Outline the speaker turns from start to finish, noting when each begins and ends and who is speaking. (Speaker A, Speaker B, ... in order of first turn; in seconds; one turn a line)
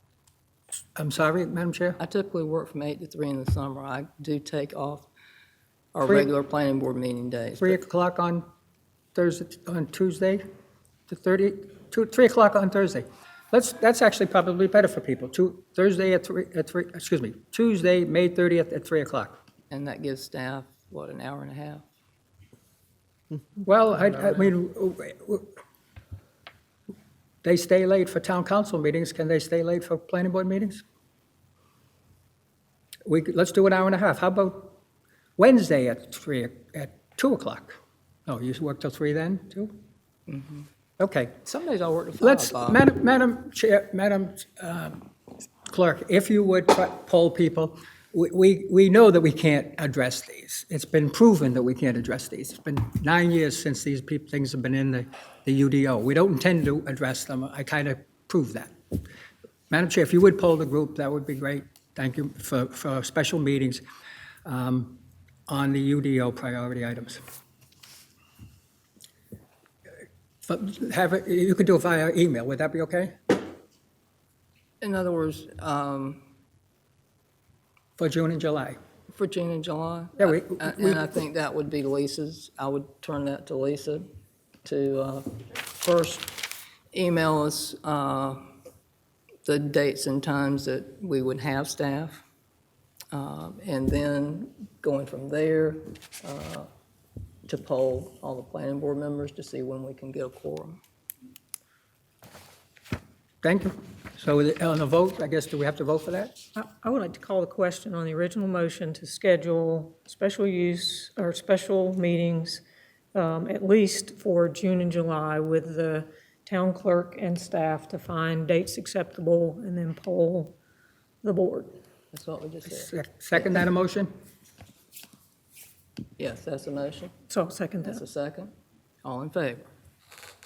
Speaker A: 0.9-2.0
Speaker B: 2.0-5.1
Speaker B: 5.9-7.8
Speaker A: 7.6-8.4
Speaker A: 9.1-10.4
Speaker A: 11.1-19.3
Speaker B: 19.7-21.9
Speaker A: 23.6-25.5
Speaker A: 27.4-30.8
Speaker A: 33.0-34.8
Speaker A: 35.4-39.7
Speaker B: 40.3-40.7
Speaker A: 41.0-41.4
Speaker B: 41.4-42.8
Speaker A: 42.2-45.1
Speaker A: 45.7-58.7
Speaker A: 59.7-63.8
Speaker A: 64.4-67.2
Speaker A: 70.4-73.1
Speaker B: 74.8-76.2
Speaker A: 78.0-78.8
Speaker B: 79.1-84.0
Speaker A: 80.2-81.1
Speaker B: 84.6-88.5
Speaker B: 89.4-92.2
Speaker B: 93.1-96.7
Speaker B: 97.5-100.8
Speaker A: 103.4-106.3
Speaker C: 106.5-112.6
Speaker C: 113.1-120.6
Speaker C: 121.2-121.7
Speaker B: 122.1-123.5
Speaker A: 122.7-124.1
Speaker B: 126.2-127.1
Speaker C: 127.3-128.0
Speaker B: 127.8-128.5
Speaker B: 129.0-129.7